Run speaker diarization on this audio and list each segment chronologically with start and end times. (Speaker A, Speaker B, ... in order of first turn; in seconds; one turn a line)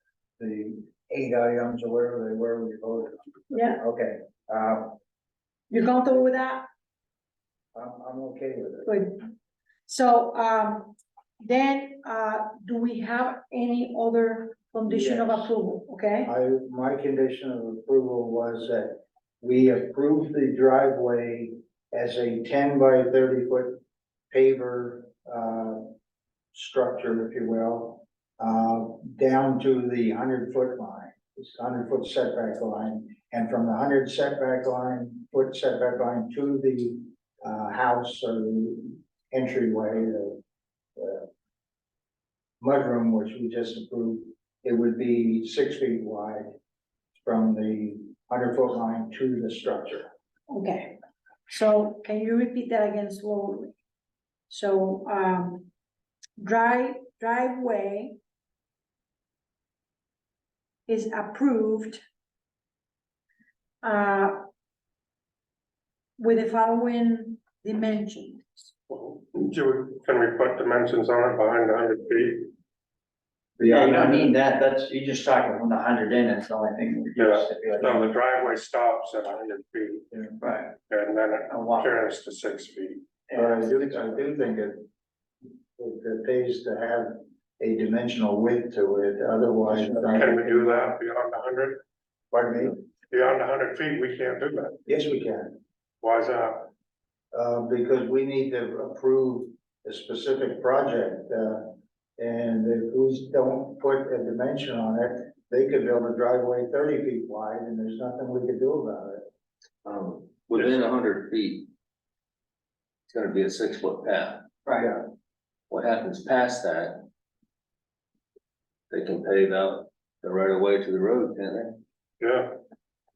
Speaker A: 0.4-5.0
Speaker B: 3.5-3.8
Speaker B: 5.7-6.7
Speaker A: 7.7-8.9
Speaker B: 8.8-9.2
Speaker B: 9.9-16.3
Speaker A: 14.8-15.5
Speaker A: 16.2-23.8
Speaker A: 24.3-25.9
Speaker A: 26.5-40.4
Speaker A: 41.0-41.3
Speaker A: 42.6-46.5
Speaker A: 47.2-50.1
Speaker B: 50.5-51.0
Speaker B: 51.5-53.7
Speaker B: 54.5-55.7
Speaker B: 56.4-58.2
Speaker B: 60.9-62.0
Speaker B: 63.8-64.4
Speaker B: 66.2-68.7
Speaker C: 68.9-72.5
Speaker D: 73.6-78.1
Speaker C: 77.2-80.0
Speaker D: 80.1-80.7
Speaker C: 80.9-83.1
Speaker D: 81.5-81.9
Speaker D: 83.3-83.8
Speaker A: 83.3-84.8
Speaker A: 85.8-91.0
Speaker C: 90.1-91.8
Speaker A: 92.3-92.8
Speaker C: 93.1-94.8
Speaker A: 94.9-95.5
Speaker C: 96.0-96.7
Speaker A: 97.3-109.2
Speaker E: 109.8-111.7
Speaker E: 113.1-114.5
Speaker D: 114.6-114.9
Speaker E: 115.7-117.0
Speaker E: 118.9-121.8
Speaker C: 122.2-122.6